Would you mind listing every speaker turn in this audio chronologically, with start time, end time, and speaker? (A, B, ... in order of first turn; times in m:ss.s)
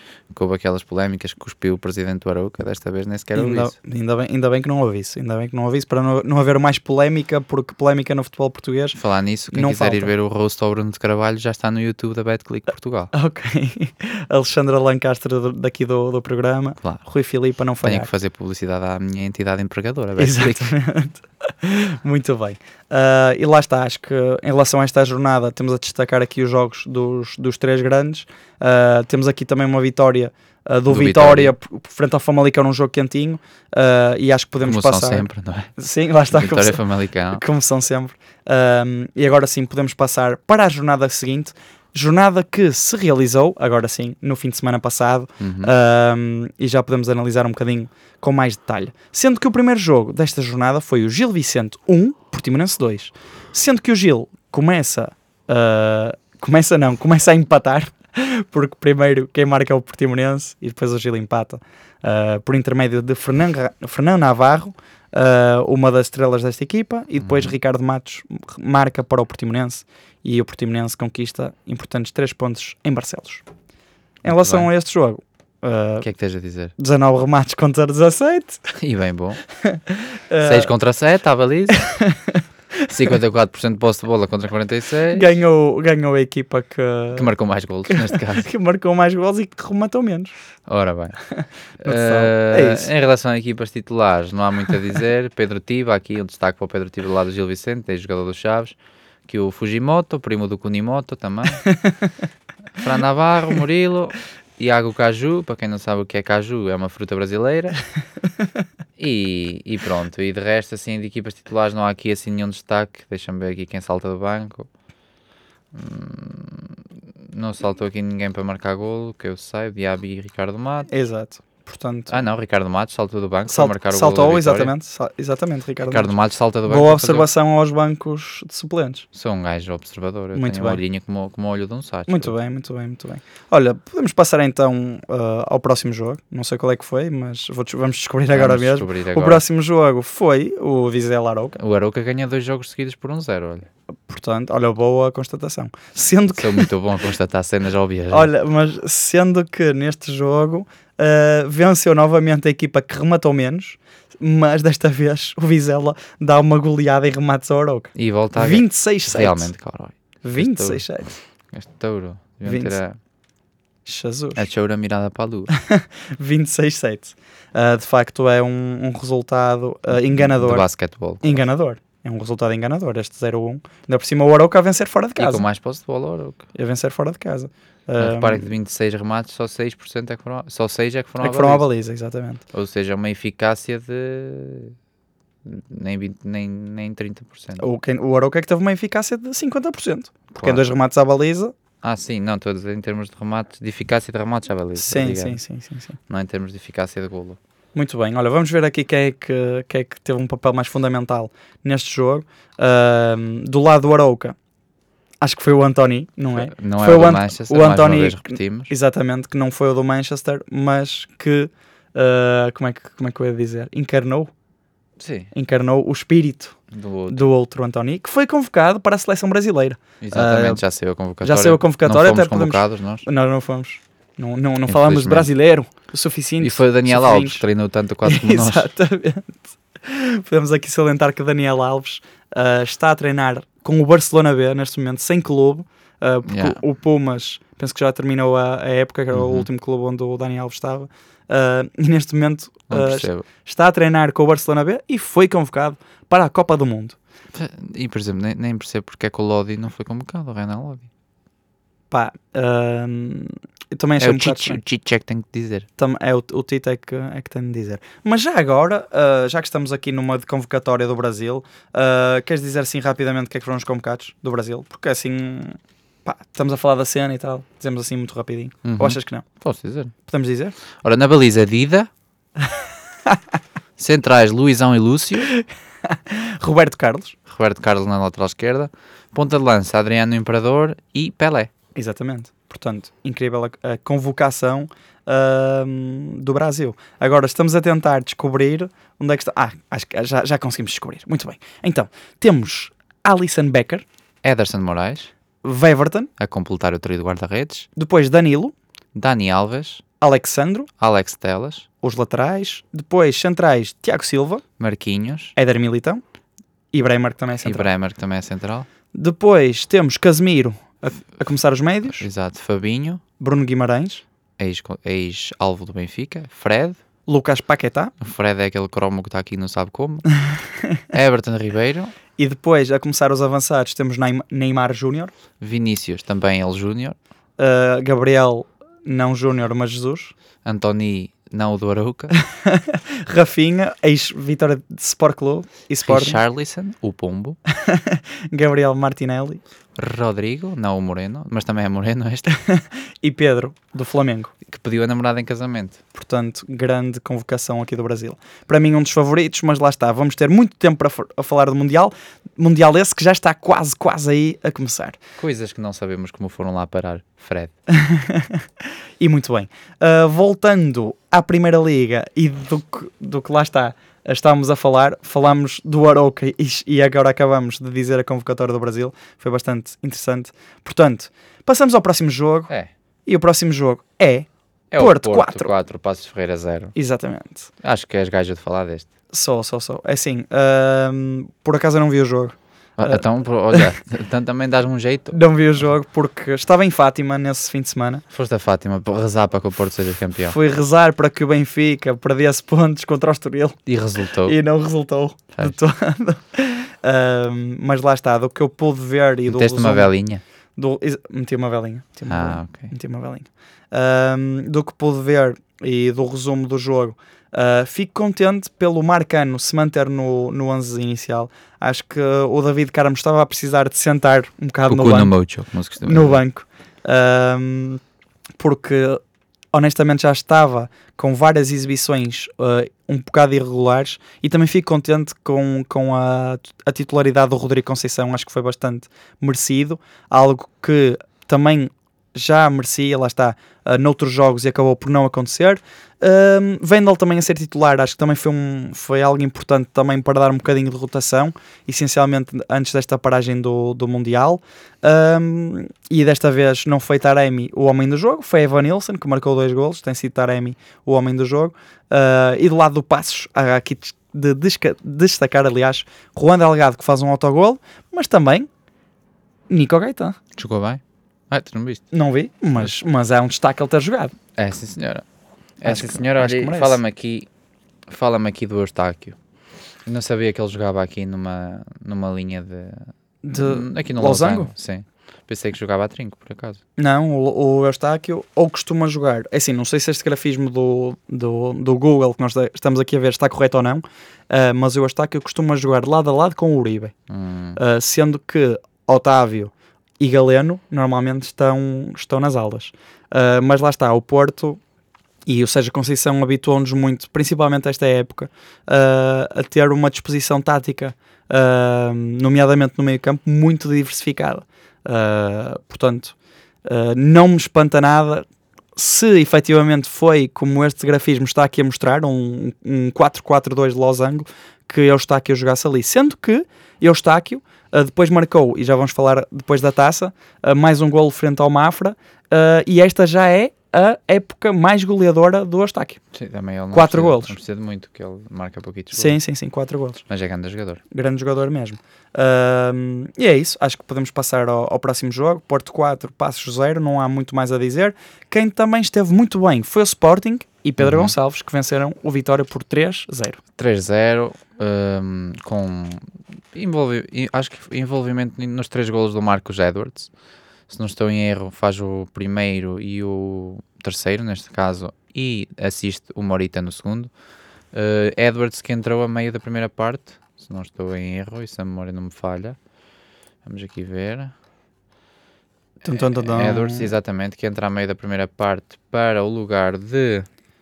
0:00.3-0:03.7 A
0:03.3-0:09.0 B
0:08.9-0:13.1 A
0:09.5-0:10.1 B
0:13.1-0:18.1 B
0:17.8-0:20.7 A
0:20.2-0:36.8 B
0:30.9-0:31.5 A
0:34.6-0:35.7 A
0:36.3-0:37.4 A
0:37.3-1:13.4 B
0:45.4-0:45.7 A
1:07.2-1:07.5 A
1:14.2-1:16.1 B
1:14.2-1:14.7 A
1:16.0-1:16.7 A
1:16.8-1:18.7 B
1:18.8-1:19.4 A
1:19.6-1:20.7 B
1:20.4-1:21.8 A
1:21.7-1:22.9 B
1:22.9-1:25.3 A
1:25.1-1:27.3 B
1:27.1-1:28.5 A
1:27.9-1:30.3 B
1:30.7-1:31.2 A
1:31.8-1:38.8 A
1:31.8-1:32.9 B
1:39.3-1:41.6 A
1:41.6-1:42.0 B
1:42.8-1:47.8 A
1:49.0-1:54.7 A
1:55.7-2:00.9 A
2:00.9-2:02.2 B
2:02.1-2:04.7 A
2:03.5-2:09.0 B
2:05.8-2:07.3 A
2:09.1-2:12.3 A
2:10.4-2:10.8 B
2:12.1-2:21.6 B
2:18.3-2:19.4 A
2:21.6-2:23.7 A
2:24.1-2:26.7 B
2:26.4-2:28.3 A
2:28.1-2:39.5 B
2:37.9-2:40.8 A
2:40.2-2:41.1 B
2:41.5-2:43.0 A
2:42.4-2:42.8 B
2:43.8-2:44.5 B
2:44.4-2:45.5 A
2:45.5-2:50.6 B
2:49.9-2:51.4 A
2:51.2-2:55.4 B
2:55.2-2:56.4 A
2:56.5-2:58.5 B
2:58.0-3:01.6 A
3:01.2-3:02.4 B
3:02.5-3:04.7 A
3:05.4-3:07.6 A
3:07.6-3:11.5 B
3:11.8-3:15.4 A
3:14.8-3:16.0 B
3:16.1-3:17.4 A
3:17.7-3:24.4 B
3:25.2-3:34.3 B
3:26.3-3:28.7 A
3:35.0-3:35.3 A
3:35.3-3:36.6 B
3:36.7-3:37.3 A
3:37.1-3:40.6 B
3:40.0-3:43.0 A
3:41.2-3:47.4 B
3:44.7-3:45.3 A
3:46.4-3:48.7 A
3:48.0-4:07.0 B
3:56.3-3:56.6 A
3:59.1-3:59.5 A
4:02.7-4:03.2 A
4:07.3-4:10.9 A
4:11.9-4:14.6 B
4:14.0-4:15.7 A
4:15.8-4:29.2 B
4:28.6-4:29.9 A
4:30.1-4:30.5 B
4:30.8-4:31.9 A
4:33.8-4:35.3 A
4:35.4-4:37.2 B
4:37.3-4:41.5 A
4:41.7-4:53.8 B
4:54.2-4:55.1 A
4:55.4-4:56.1 B
4:56.2-4:57.7 A
4:57.8-4:58.5 B
4:58.9-4:59.8 A
5:00.0-5:00.7 B
5:00.8-5:01.7 A
5:01.8-5:04.4 B
5:04.6-5:05.3 A
5:05.4-5:06.0 B
5:06.7-5:07.7 B
5:07.4-5:08.7 A
5:08.9-5:12.0 B
5:12.0-5:13.0 A
5:13.2-5:14.0 B
5:14.4-5:16.8 A
5:17.1-5:17.9 B
5:18.0-5:20.0 A
5:20.9-5:21.9 A
5:22.2-5:25.1 B
5:25.4-5:27.0 A
5:27.4-5:30.1 B
5:30.4-5:32.1 A
5:32.2-5:36.2 B
5:35.8-5:37.4 A
5:37.6-5:39.4 B
5:39.8-5:42.3 A
5:42.3-5:44.3 B
5:44.4-5:45.8 A
5:45.9-5:55.0 B
5:55.2-5:57.5 A
5:57.7-5:58.4 B
5:59.0-6:12.5 B
6:13.0-6:15.5 B
6:14.7-6:16.7 A
6:16.7-6:17.5 B
6:17.6-6:18.9 A
6:19.1-6:23.7 B
6:22.8-6:25.2 A
6:25.1-6:28.0 B
6:28.1-6:30.4 A
6:30.2-6:33.6 B
6:33.7-6:34.4 A
6:34.2-6:39.9 B
6:39.3-6:40.2 A
6:40.6-6:55.1 B
6:42.1-6:42.7 A
6:54.7-6:56.2 A
6:55.8-6:57.8 B
6:58.4-6:59.0 B
6:59.5-7:38.5 B
7:39.5-7:40.2 B
7:40.3-7:41.8 A
7:41.9-7:44.1 B
7:44.4-7:45.0 A
7:45.6-7:47.3 A
7:45.6-7:46.8 B
7:47.9-7:49.2 A
7:49.8-7:56.6 A
7:53.2-7:54.5 B
7:56.8-8:06.9 B
8:07.1-8:07.6 A
8:07.6-8:14.6 B
8:15.3-8:46.0 B
8:46.1-8:49.2 A
8:46.7-8:47.4 B
8:48.9-8:50.0 B
8:50.1-8:50.8 A
8:50.9-9:03.4 B
9:00.8-9:01.1 A
9:03.6-9:10.1 A
9:10.7-9:17.1 A
9:17.7-9:22.6 A
9:23.4-9:24.3 A
9:25.8-9:26.9 B
9:25.9-9:30.3 A